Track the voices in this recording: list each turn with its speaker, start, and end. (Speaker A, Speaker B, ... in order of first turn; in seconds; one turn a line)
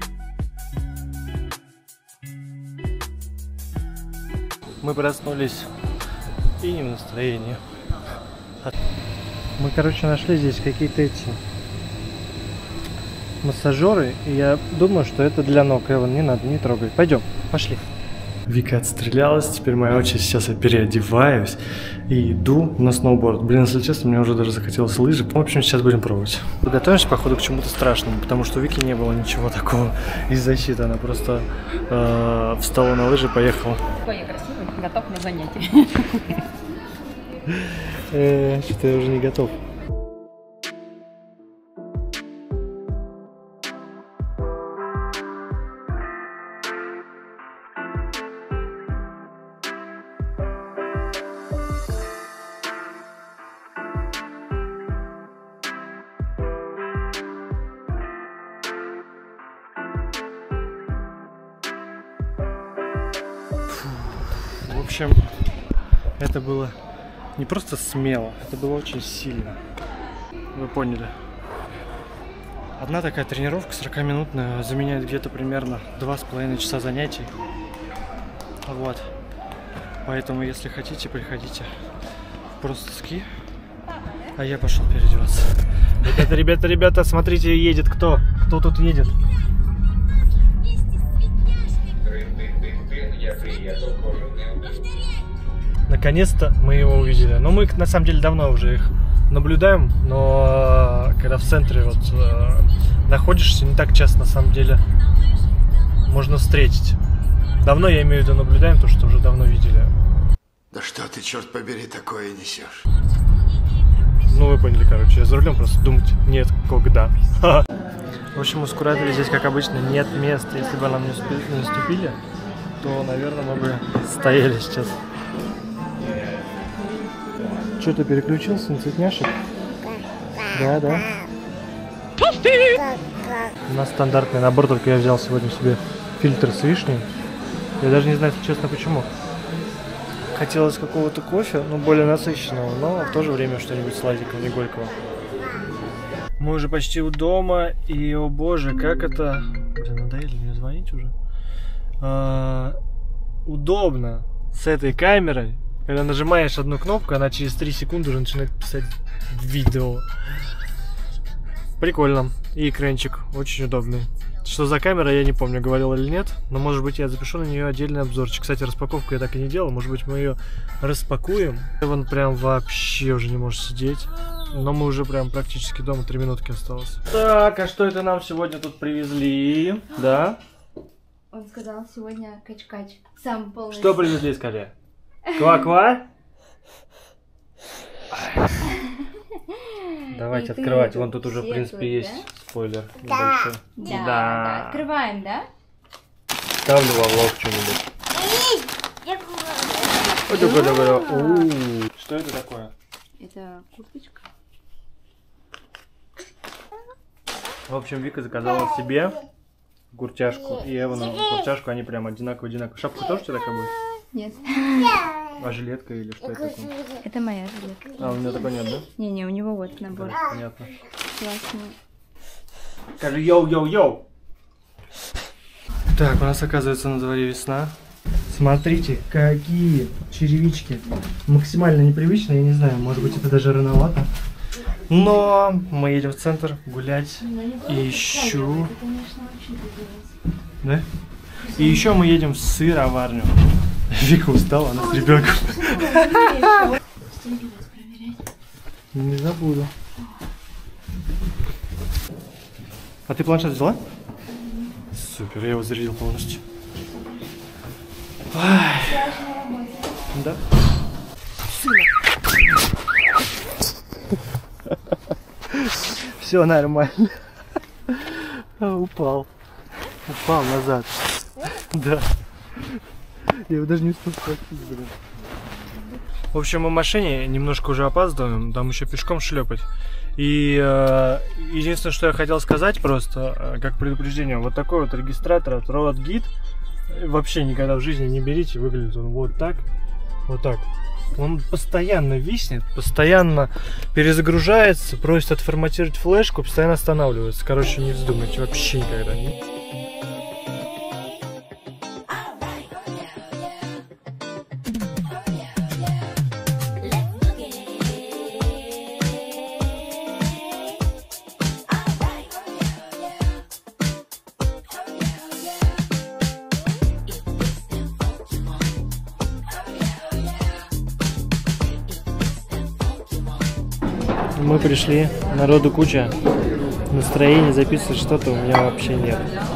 Speaker A: 4.8-5.7
Speaker A: 6.6-7.6
Speaker A: 9.6-11.4
Speaker A: 13.4-17.9
Speaker A: 18.5-33.8
Speaker B: 34.0-36.3
Speaker A: 37.5-39.6
Speaker A: 63.7-65.3
Speaker A: 66.2-66.8
Speaker A: 67.3-69.6
Speaker A: 70.5-71.1
Speaker A: 72.8-77.3
Speaker A: 78.6-79.1
Speaker A: 80.0-81.7
Speaker A: 82.5-83.3
Speaker A: 84.3-89.2
Speaker A: 93.5-93.9
Speaker A: 95.9-104.8
Speaker A: 106.0-107.0
Speaker A: 107.6-109.9
Speaker C: 110.7-112.8
Speaker A: 114.3-117.7
Speaker A: 118.3-122.2
Speaker A: 122.8-125.0
Speaker A: 127.8-129.4
Speaker A: 130.5-131.2
Speaker A: 133.7-137.1
Speaker A: 137.8-139.1
Speaker A: 140.3-144.9
Speaker A: 146.4-151.1
Speaker A: 152.0-152.8
Speaker A: 153.4-160.1
Speaker A: 161.8-180.4
Speaker B: 181.3-184.2
Speaker A: 183.7-184.7
Speaker A: 185.3-186.1
Speaker B: 189.5-192.3
Speaker A: 190.1-194.8
Speaker B: 193.8-195.5
Speaker A: 196.6-197.9
Speaker A: 200.3-202.7
Speaker B: 200.3-201.5
Speaker B: 203.2-204.2
Speaker A: 207.7-209.2
Speaker A: 209.9-213.7
Speaker B: 214.1-215.1
Speaker A: 215.3-216.7
Speaker B: 217.0-218.2
Speaker A: 218.0-218.9
Speaker B: 218.8-220.2
Speaker A: 219.9-220.7
Speaker B: 221.2-221.8
Speaker A: 223.0-224.0
Speaker A: 225.9-227.8
Speaker A: 228.3-234.1
Speaker A: 234.7-238.8
Speaker B: 237.3-240.1
Speaker A: 240.6-240.9
Speaker A: 241.4-246.8
Speaker B: 246.1-246.7
Speaker B: 247.3-248.2
Speaker A: 248.9-249.7
Speaker A: 253.1-253.8
Speaker A: 254.9-256.4
Speaker A: 258.3-259.4
Speaker A: 260.1-260.4
Speaker A: 265.5-267.3
Speaker A: 267.9-269.3
Speaker A: 270.0-274.9
Speaker A: 276.3-286.3
Speaker A: 286.9-289.7
Speaker A: 290.3-299.3
Speaker A: 324.3-326.1
Speaker A: 326.9-329.3